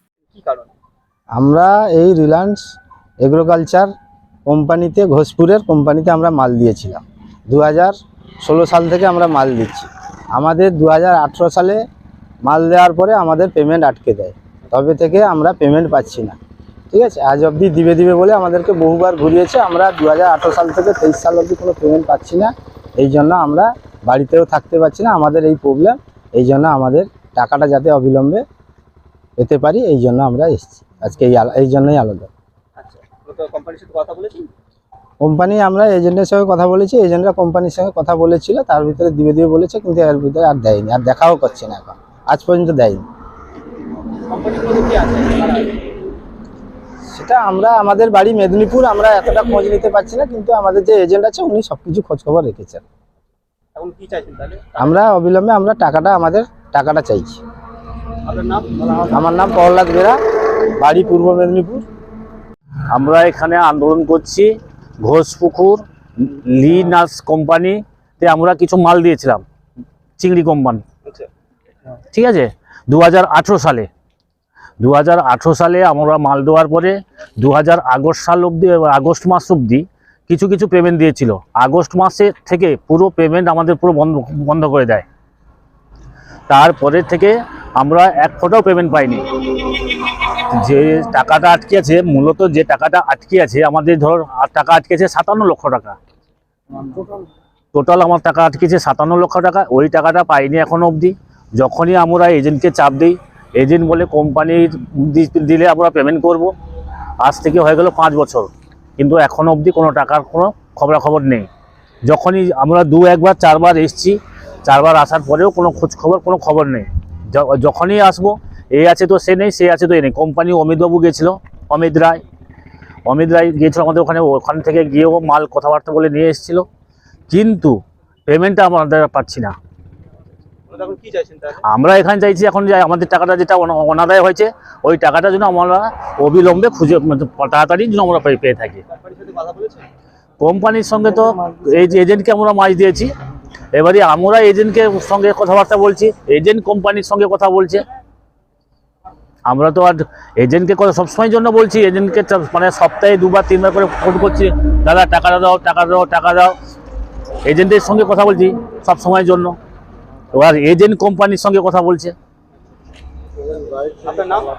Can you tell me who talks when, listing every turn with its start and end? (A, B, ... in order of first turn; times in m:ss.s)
0:00.3-0:00.8 A
0:01.4-0:02.6 B
0:03.2-0:03.9 B
0:04.5-0:11.8 B
0:12.4-0:16.4 B
0:16.9-0:28.4 B
0:29.4-0:32.3 B
0:32.8-0:34.5 A
0:35.2-0:43.0 B
0:44.3-0:45.8 A
0:47.1-0:52.8 B
0:53.8-0:54.9 A
0:54.8-0:57.4 B
0:58.2-0:59.1 A
0:59.1-1:01.8 B
1:02.9-1:04.5 C
1:05.0-1:09.4 C
1:10.2-1:10.8 C
1:12.1-1:13.9 C
1:14.8-1:25.0 C
1:26.5-1:36.0 C
1:37.7-1:46.5 C
1:47.2-1:51.5 C
1:52.1-2:02.2 C
2:03.1-2:06.7 C
2:07.3-2:09.6 C
2:10.7-2:11.6 A
2:11.7-2:18.8 C
2:18.9-2:19.9 A
2:20.4-2:23.1 C
2:23.7-2:27.8 C
2:29.5-2:36.5 C
2:37.4-2:39.6 C
2:40.3-2:42.2 C
2:44.0-2:44.5 A